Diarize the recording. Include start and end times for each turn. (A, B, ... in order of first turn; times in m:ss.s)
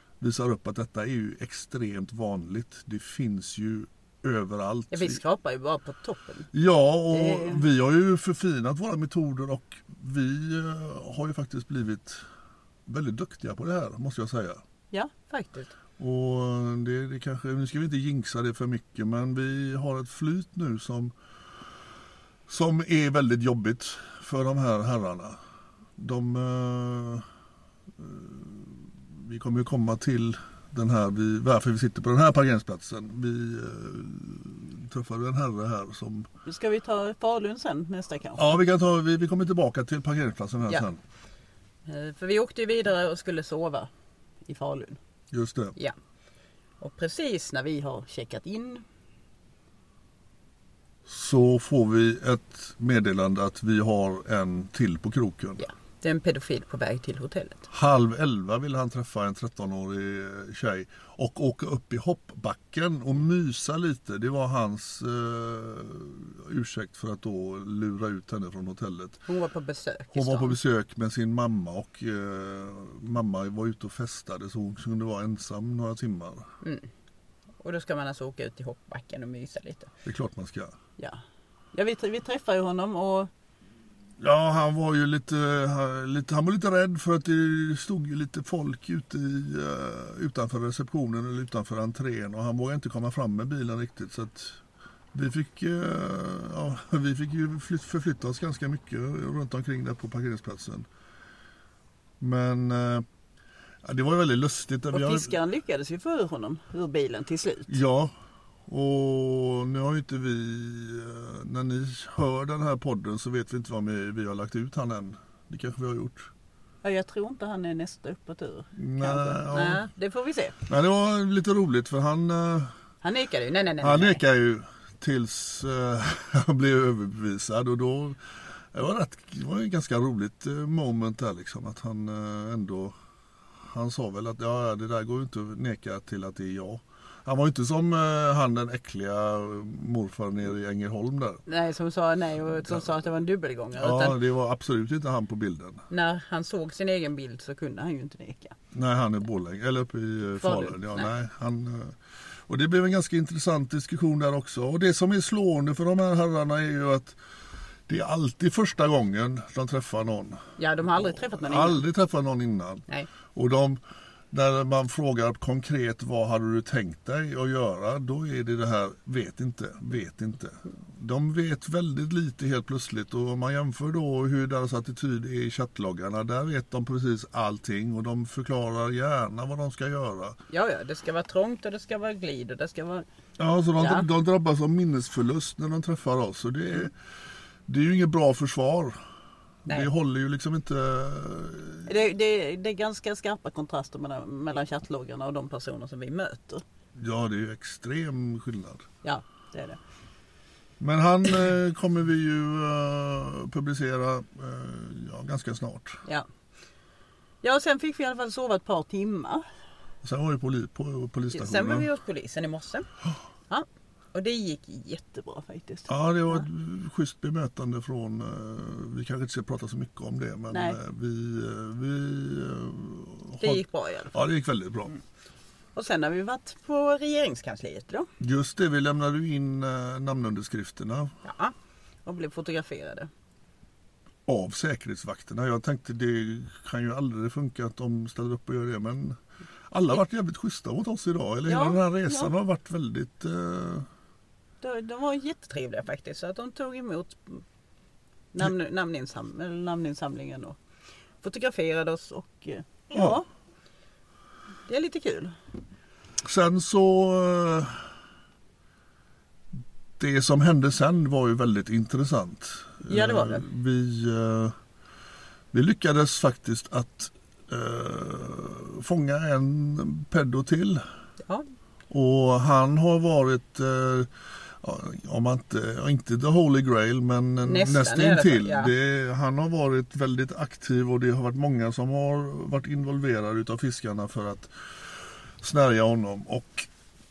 0:00.2-0:05.2 A
0:04.9-0:06.5 B
0:06.5-0:12.2 A
0:07.1-0:07.7 B
0:12.9-0:14.6 A
0:14.9-0:15.8 B
0:16.0-0:21.1 A
0:22.5-0:25.4 A
0:26.0-0:27.2 A
0:28.0-0:36.3 A
0:36.5-0:38.6 B
0:38.4-0:41.0 A
0:41.9-0:43.9 B
0:44.5-0:45.0 B
0:45.3-0:45.8 A
0:46.8-0:48.8 B
0:51.1-0:55.6 A
0:55.6-0:57.7 B
0:57.7-1:09.2 A
1:09.3-1:10.6 B
1:10.1-1:16.5 A
1:17.6-1:19.9 B
1:20.0-1:20.8 A
1:21.7-1:23.3 B
1:24.2-1:34.6 A
1:35.1-1:40.9 A
1:42.2-1:43.1 A
1:43.8-1:45.3 A
1:44.9-1:47.8 B
1:47.7-1:48.1 A
1:48.7-1:56.3 A
1:56.8-2:00.6 B
1:58.8-1:59.9 A
2:00.7-2:02.7 A
2:03.0-2:04.2 B
2:03.8-2:13.0 A
2:13.7-2:21.4 A
2:21.5-2:24.2 B
2:23.8-2:25.8 A
2:25.9-2:28.6 B
2:28.7-2:37.2 A
2:30.4-2:31.1 B
2:37.9-2:43.8 A
2:40.6-2:41.8 B
2:44.3-3:00.4 A
3:00.5-3:03.1 B
3:03.4-3:06.9 A
3:03.8-3:04.1 B
3:07.7-3:09.0 A
3:09.7-3:11.9 A
3:11.9-3:16.6 B
3:17.0-3:18.9 A
3:19.0-3:19.8 B
3:20.8-3:26.0 A
3:27.4-3:29.4 B
3:30.0-3:31.9 A
3:31.3-3:32.9 B
3:33.5-3:36.4 B
3:35.9-3:43.6 A
3:40.5-3:40.8 B
3:43.4-3:44.2 B
3:44.1-3:44.9 A
3:45.8-3:48.1 B
3:48.2-3:51.1 A
3:51.2-3:51.5 B
3:52.0-3:53.1 B
3:54.3-3:59.2 A
3:59.7-4:03.9 A
4:01.5-4:02.3 B
4:04.6-4:07.4 B
4:08.3-4:10.6 B
4:11.2-4:13.3 B
4:12.9-4:13.2 A
4:14.7-4:15.4 B
4:16.2-4:17.9 A
4:20.0-4:24.6 A
4:22.9-4:23.5 B
4:25.5-4:30.8 A
4:31.9-4:46.7 A
4:37.4-4:38.7 B